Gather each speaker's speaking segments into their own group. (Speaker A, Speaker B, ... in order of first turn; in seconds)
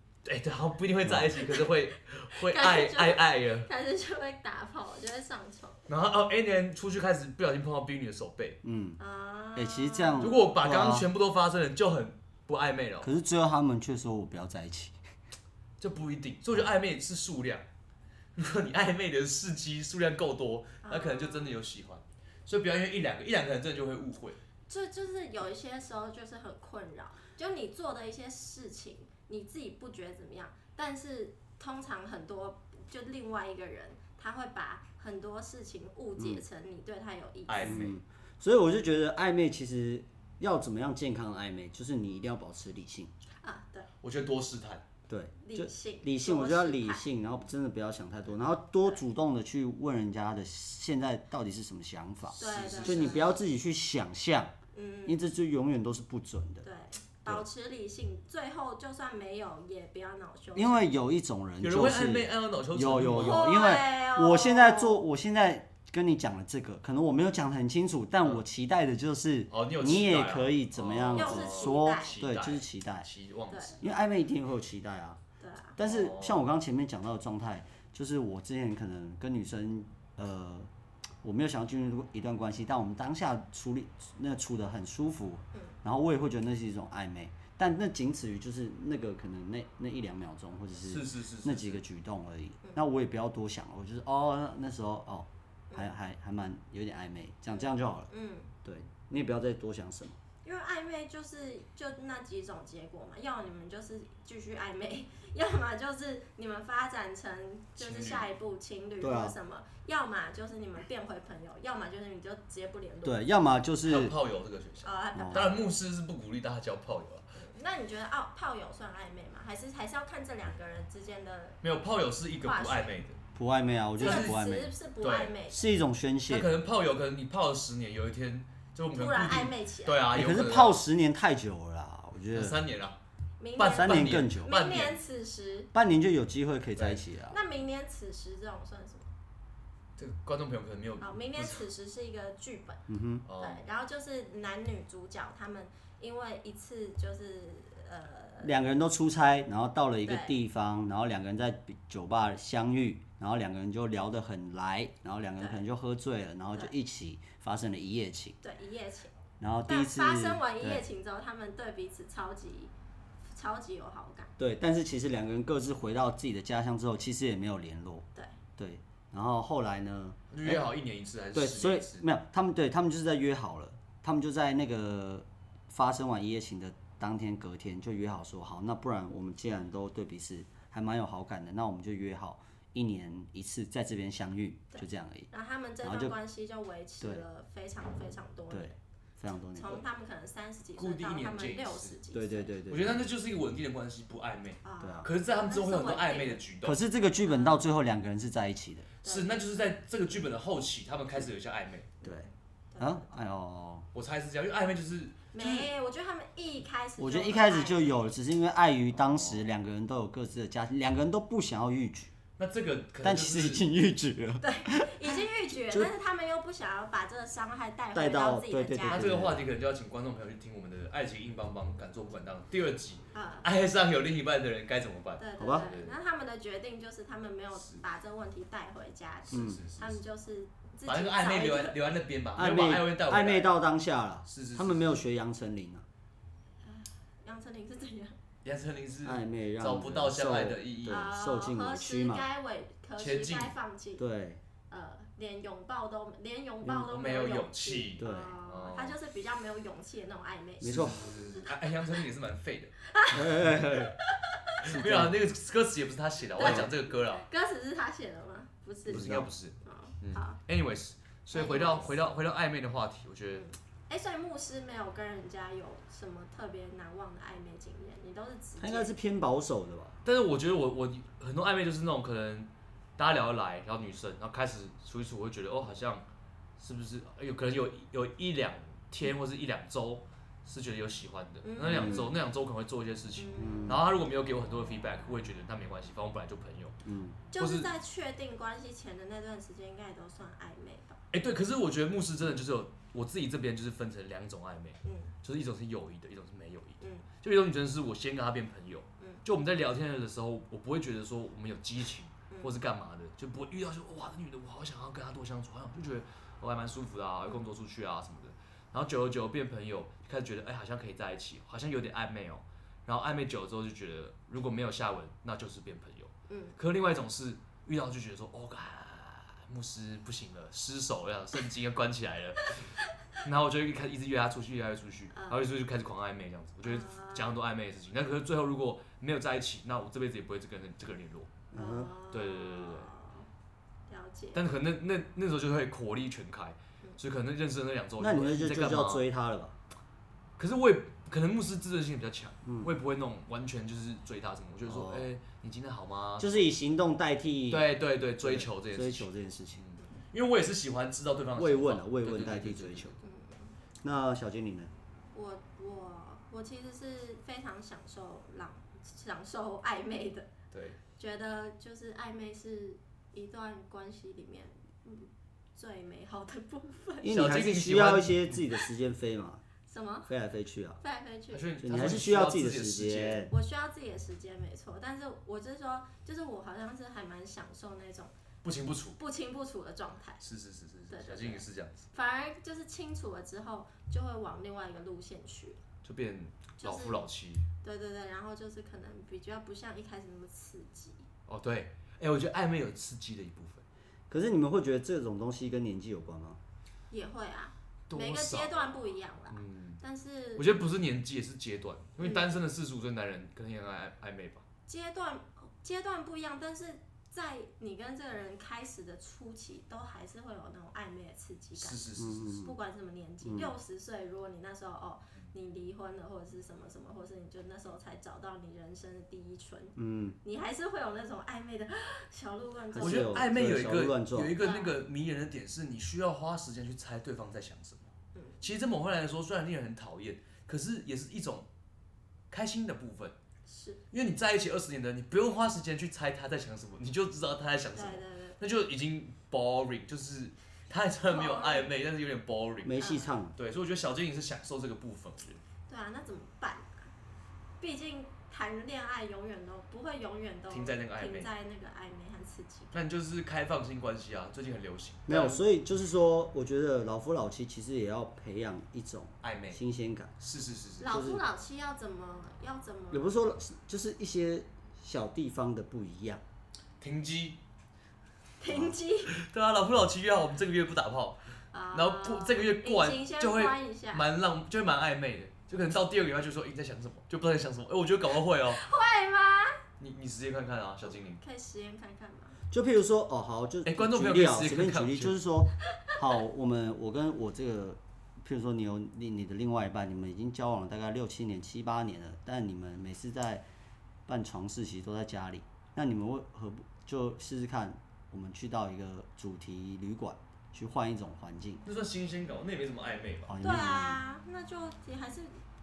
Speaker A: 0.2-3.7, 5.9-8.6, 10.2-13.1, 15.8-17.6, 18.4-24.4, 37.5-37.9, 44.0-44.8, 52.3-53.3, 61.6-63.5, 69.5-73.8, 75.8-76.4, 90.8-91.8, 107.8-108.3, 113.8-117.2, 121.6-123.2, 124.0-124.4, 125.0-125.3, 126.3-130.8, 132.3-133.0, 133.6-135.0, 136.8-137.0, 140.0-141.6, 143.3-143.6, 170.3-172.0, 190.8-191.9, 192.7-196.8, 199.0-201.9, 203.9-205.7, 209.1-209.4, 212.4-213.6, 218.9-225.9, 227.5-227.8, 229.2-230.0, 230.8-233.5, 234.3-235.0, 238.4-241.1, 243.0-243.5, 246.7-249.0, 250.6-252.8, 254.6-257.2, 258.9-263.4, 270.0-276.1, 276.6-286.8, 287.4-287.7, 291.1-331.4, 332.1-332.9, 334.3-339.0, 340.4-346.4, 347.5-353.0, 360.5-360.8, 367.1-368.4, 371.3-373.3, 378.4-379.0, 380.2-381.9, 385.8-387.4, 391.3-393.6, 397.9-399.8, 400.4-404.4, 411.6-412.4, 422.8-431.5, 432.3-433.1, 433.9-442.8, 443.4-445.4, 450.5-451.3, 452.7-455.4, 459.2-459.6, 460.2-460.9, 466.8-467.4, 469.1-471.2, 471.7-478.6, 479.8-481.2, 483.6-485.1, 501.6-503.3
Speaker B: 1.0-1.4, 8.6-9.0, 9.5-11.1, 13.0-15.0, 36.2-36.4, 37.6-43.1, 45.1-54.5, 55.0-56.6, 60.5-73.1, 73.8-75.2, 75.8-80.7, 81.2-98.1, 98.6-100.2, 109.0-109.3, 113.0-114.1, 115.1-115.5, 123.3-124.7, 125.5-126.5, 130.1-132.6, 133.7-134.5, 135.7-137.4, 142.9-143.2, 148.4-158.4, 159.4-160.8, 164.4-168.1, 168.6-170.7, 171.3-185.3, 185.8-186.2, 188.5-189.8, 192.1-193.1, 194.8-195.1, 196.6-198.9, 202.0-203.8, 207.0-212.1, 213.0-215.9, 217.9-219.5, 225.4-225.7, 229.3-229.6, 232.3-235.8, 239.0-242.2, 244.0-244.4, 248.0-248.4, 250.6-251.1, 253.1-253.9, 254.6-255.2, 256.4-256.7, 258.9-259.3, 268.6-270.0, 281.6-282.1, 283.4-283.8, 286.8-287.2, 331.5-331.9, 338.0-339.6, 342.4-342.7, 344.6-345.1, 346.2-347.7, 348.2-349.6, 351.3-352.9, 353.8-354.7, 367.0-369.4, 370.1-370.8, 371.6-373.3, 394.1-396.4, 412.0-412.5, 413.2-413.5, 419.8-420.2, 422.7-424.4, 442.6-443.4, 455.1-460.1, 460.8-461.2, 462.9-466.2, 468.5-468.7, 482.5-493.4, 494.1-501.6, 503.2-504.0
Speaker C: 2.4-5.8, 9.0-10.4, 20.8-21.6, 24.7-37.9, 43.4-43.9, 45.4-47.0, 52.4-53.4, 54.7-55.2, 56.6-60.9, 63.2-65.0, 71.1-72.2, 73.5-73.8, 75.4-75.8, 97.5-98.5, 100.4-113.2, 114.8-115.7, 117.4-121.6, 122.4-123.0, 124.0-125.7, 128.9-130.0, 133.4-135.7, 137.3-139.1, 141.0-142.8, 143.4-148.5, 150.0-150.4, 158.4-159.1, 159.7-162.7, 163.3-164.3, 184.7-188.8, 189.6-192.5, 194.6-196.4, 197.2-197.6, 199.0-199.7, 202.7-203.1, 205.3-207.9, 214.4-219.1, 223.1-223.5, 225.2-231.8, 236.6-238.1, 240.9-244.0, 244.7-251.0, 252.9-253.3, 256.4-260.4, 261.3-262.1, 263.3-268.9, 281.4-282.1, 283.2-283.7, 287.3-291.0, 294.8-295.1, 296.8-297.1, 316.3-316.6, 325.1-325.4, 326.6-327.3, 331.5-333.3, 333.9-334.4, 353.0-353.5, 355.1-360.3, 361.0-367.1, 369.7-370.1, 370.8-371.4, 373.3-378.1, 379.0-380.2, 380.9-385.6, 386.6-387.0, 387.6-391.1, 396.9-400.6, 402.0-402.4, 404.7-423.2, 424.4-424.8, 428.1-428.4, 433.4-433.8, 437.7-438.4, 441.1-441.7, 442.8-443.1, 445.7-446.9, 447.6-452.8, 460.8-463.1, 468.4-469.1, 471.5-474.0, 478.5-479.6, 481.2-482.4, 503.4-505.3